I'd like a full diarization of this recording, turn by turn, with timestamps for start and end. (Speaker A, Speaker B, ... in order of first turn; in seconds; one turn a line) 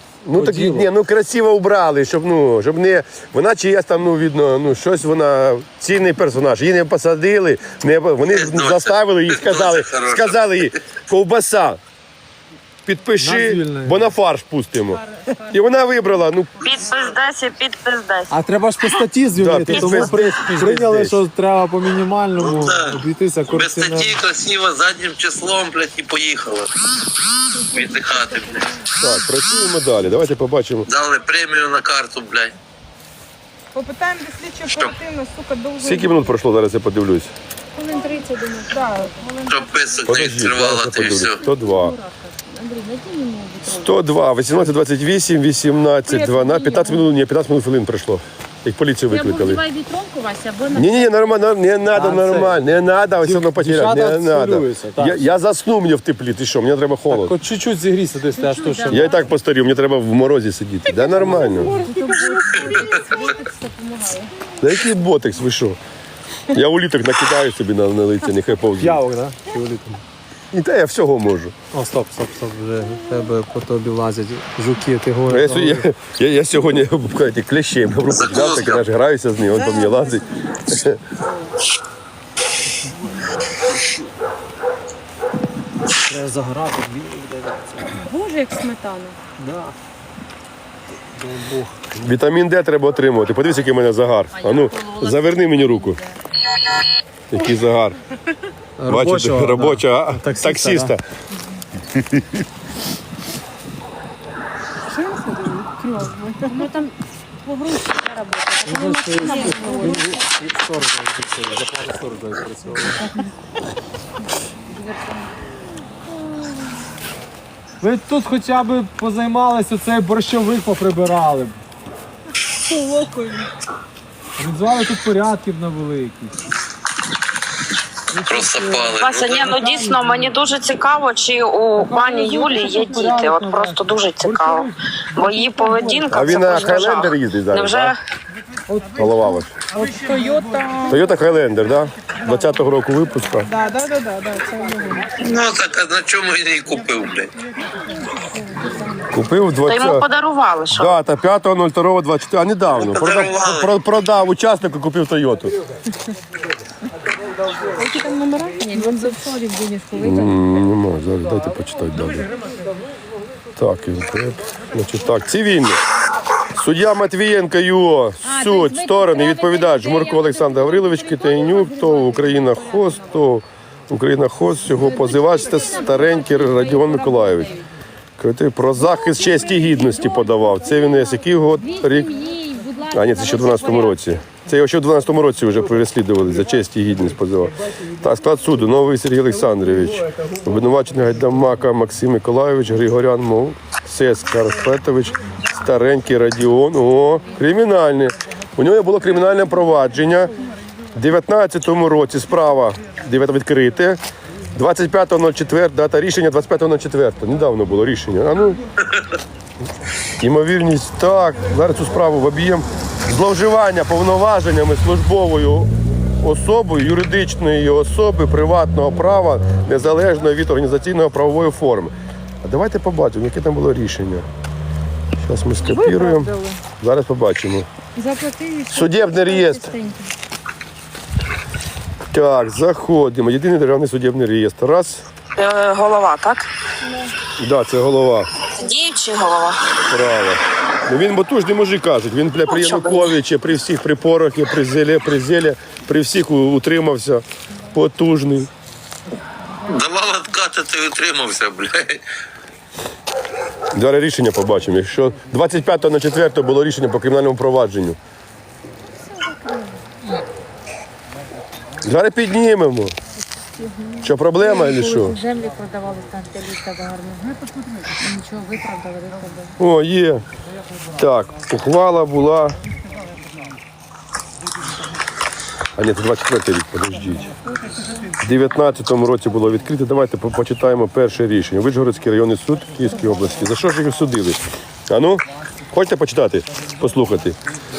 Speaker A: 0.2-11.8
Speaker B: 0.3-0.9
Speaker C: 8.3-10.8
Speaker A: 12.8-16.7
Speaker B: 13.2-14.1
Speaker D: 16.6-18.3
Speaker B: 18.3-24.2
Speaker A: 19.4-21.2
Speaker D: 19.7-20.1
Speaker C: 22.4-26.7
Speaker C: 27.7-28.7
Speaker A: 29.0-30.9
Speaker C: 30.9-32.5
Speaker E: 33.7-36.4
Speaker C: 34.7-35.0
Speaker A: 35.8-37.3
Speaker F: 37.8-40.1
Speaker E: 38.7-39.3
Speaker C: 39.5-41.4
Speaker A: 40.1-42.0
Speaker F: 41.2-44.2
Speaker A: 43.6-49.6
Speaker F: 46.1-47.1
Speaker F: 49.1-51.3
Speaker A: 50.7-57.4
Speaker B: 51.9-52.6
Speaker B: 53.2-55.3
Speaker B: 57.1-59.2
Speaker F: 58.3-59.2
Speaker A: 58.9-61.8
Speaker E: 60.9-63.2
Speaker B: 61.1-61.6
Speaker F: 61.5-64.3
Speaker A: 64.6-65.8
Speaker A: 66.5-69.0
Speaker B: 68.8-70.0
Speaker A: 70.5-71.5
Speaker B: 71.7-75.9
Speaker A: 75.3-81.0
Speaker C: 78.1-78.9
Speaker F: 79.4-80.4
Speaker F: 81.2-81.5
Speaker B: 86.1-88.0
Speaker F: 88.0-89.2
Speaker B: 89.4-89.7
Speaker B: 91.2-91.8
Speaker A: 92.0-96.0
Speaker F: 94.3-96.2
Speaker A: 97.3-98.0
Speaker B: 98.8-101.0
Speaker A: 98.9-101.0
Speaker E: 104.9-106.7
Speaker F: 106.1-110.3
Speaker B: 108.7-113.1
Speaker E: 109.4-109.9
Speaker F: 112.9-113.3
Speaker F: 114.7-115.3
Speaker B: 117.8-121.6
Speaker B: 124.4-126.4
Speaker B: 128.1-128.9
Speaker C: 128.2-129.9
Speaker D: 129.0-138.0
Speaker B: 129.8-130.3
Speaker B: 131.8-136.4
Speaker A: 136.1-137.9
Speaker B: 138.7-139.4
Speaker A: 138.9-139.5
Speaker E: 139.8-141.1
Speaker A: 140.9-143.5
Speaker E: 143.4-145.2
Speaker C: 145.2-147.3
Speaker F: 148.2-149.1
Speaker A: 149.1-150.1
Speaker D: 149.6-151.0
Speaker A: 150.7-155.6
Speaker C: 152.7-153.7
Speaker E: 157.8-159.2
Speaker F: 158.6-160.7
Speaker A: 160.0-162.3
Speaker A: 163.6-165.8
Speaker A: 166.5-177.5
Speaker F: 168.2-173.2
Speaker F: 174.7-177.7
Speaker A: 178.2-182.1
Speaker F: 178.8-184.1
Speaker A: 182.9-200.3
Speaker A: 200.9-204.0
Speaker A: 204.6-208.6
Speaker A: 210.2-224.3
Speaker A: 225.2-227.7
Speaker E: 225.6-226.6
Speaker F: 228.0-230.1
Speaker A: 228.7-229.7
Speaker A: 232.1-235.1
Speaker D: 235.4-236.5
Speaker A: 237.4-238.3
Speaker D: 238.6-239.6
Speaker A: 239.9-248.5
Speaker D: 242.4-243.1
Speaker C: 249.7-252.0
Speaker A: 253.7-258.0
Speaker F: 259.0-259.8
Speaker A: 261.8-262.9
Speaker F: 263.6-269.6
Speaker A: 264.0-265.2
Speaker A: 269.6-270.2
Speaker A: 271.0-272.6
Speaker A: 275.8-277.3
Speaker A: 278.2-287.4